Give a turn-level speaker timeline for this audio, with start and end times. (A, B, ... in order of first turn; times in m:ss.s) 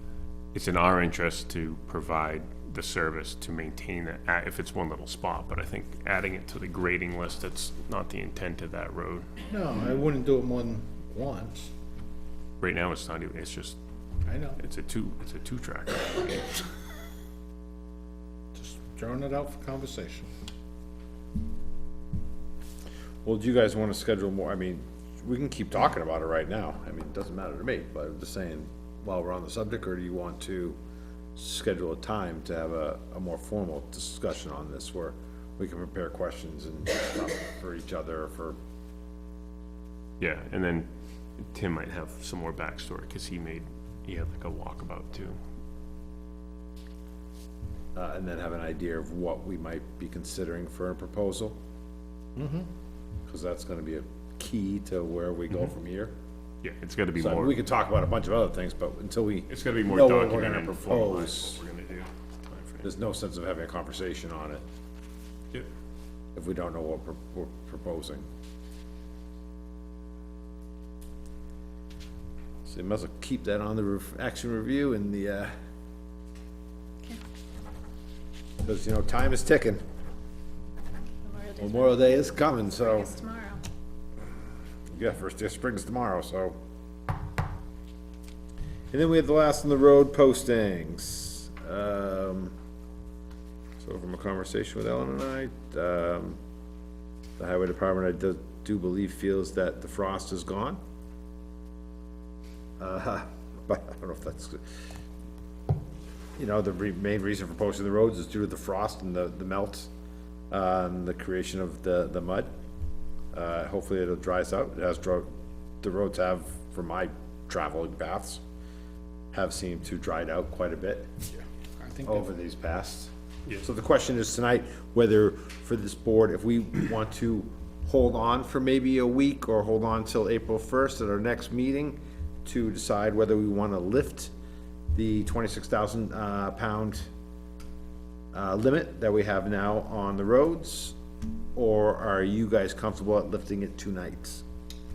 0:00.5-0:09.3 A
0:09.4-0:11.7 B
0:12.6-0:13.8 A
0:14.2-0:14.6 B
0:14.6-0:16.6 A
0:18.5-0:20.3 B
0:23.2-0:30.8 C
0:31.4-0:38.6 C
0:40.2-0:40.9 A
0:41.4-0:45.4 A
0:47.9-0:51.6 C
0:52.4-0:52.7 B
0:53.3-0:56.1 C
0:56.6-0:57.6 A
0:57.2-1:01.6 C
0:59.5-1:02.9 A
1:02.8-1:04.6 C
1:06.3-1:08.2 C
1:12.6-1:15.5 C
1:18.6-1:19.8 C
1:21.2-1:23.6 D
1:21.6-1:23.1 C
1:24.9-1:26.6 C
1:28.9-1:32.5 C
1:33.8-1:36.4 C
1:37.4-1:40.8 C
1:42.8-1:44.8 C
1:46.4-1:49.9 C
1:50.5-1:52.5 C
1:53.3-1:55.3 C
1:55.8-1:58.4 C
1:59.3-2:01.1 C
2:01.3-2:02.3 B
2:02.0-2:14.3 C
2:14.9-2:17.1 C
2:18.3-2:21.0 C
2:21.5-2:24.4 C